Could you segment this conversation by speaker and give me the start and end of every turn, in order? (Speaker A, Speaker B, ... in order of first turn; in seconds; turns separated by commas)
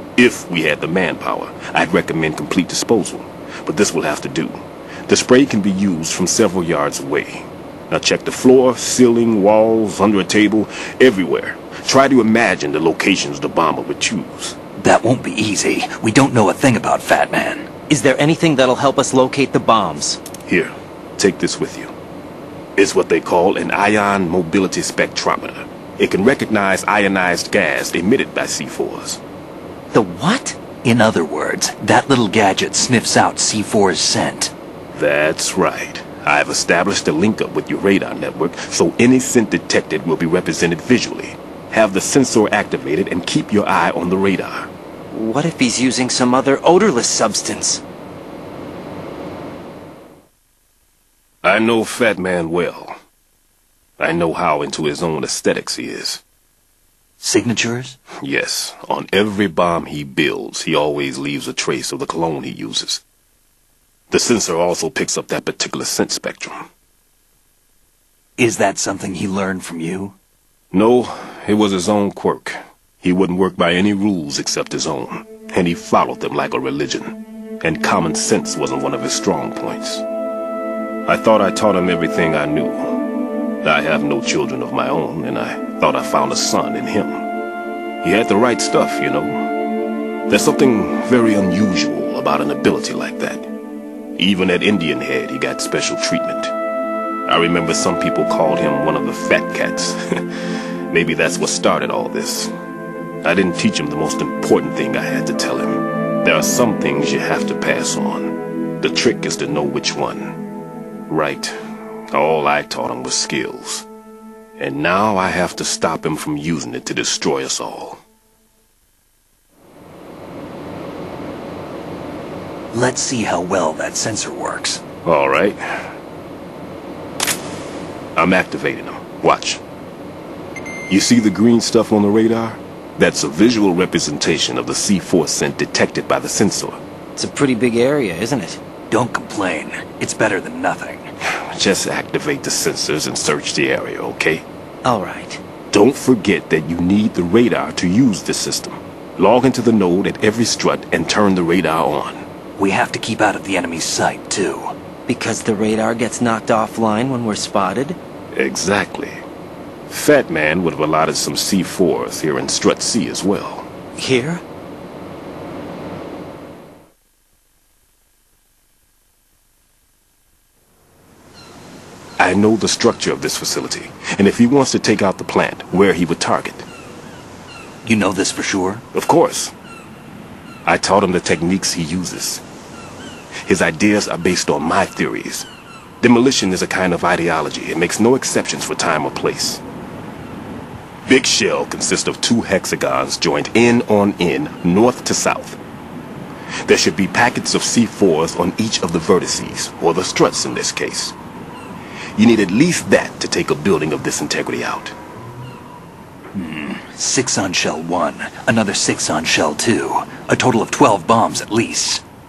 Speaker A: 0.2-14.6, Speaker B: 14.8-17.7, Speaker C: 17.9-20.2, Speaker A: 20.4-21.9, Speaker A: 22.8-29.2, Speaker C: 29.9-30.6, Speaker B: 30.8-34.5, Speaker A: 34.9-44.7, Speaker C: 45.1-47.8, Speaker A: 51.4-53.0, Speaker A: 54.0-56.2, Speaker B: 57.2-58.0, Speaker A: 58.2-63.0, Speaker A: 64.1-66.7, Speaker B: 68.4-70.2, Speaker A: 70.7-80.0, Speaker A: 81.1-83.0, Speaker A: 83.6-87.3, Speaker A: 88.0-89.5, Speaker A: 90.3-93.5, Speaker A: 94.2-96.5, Speaker A: 97.3-102.5, Speaker A: 103.2-110.4, Speaker A: 111.1-111.6, Speaker A: 112.1-113.9, Speaker A: 114.6-118.0, Speaker B: 122.7-124.8, Speaker A: 125.0-125.9, Speaker A: 128.2-129.6, Speaker A: 130.9-136.8, Speaker C: 137.2-138.6, Speaker B: 138.9-141.1, Speaker A: 141.5-144.5, Speaker C: 144.8-145.4, Speaker A: 145.7-152.2, Speaker B: 152.6-154.7, Speaker C: 155.1-158.0, Speaker A: 158.3-159.2, Speaker A: 159.9-163.7, Speaker C: 164.0-164.4, Speaker A: 172.2-176.7, Speaker B: 177.8-178.8, Speaker A: 178.9-179.5, Speaker A: 180.7-182.4, Speaker A: 183.4-185.5, Speaker A: 186.0-189.6, Speaker A: 191.1-195.6, Speaker A: 196.7-201.2, Speaker A: 202.2-204.9, Speaker B: 206.3-212.0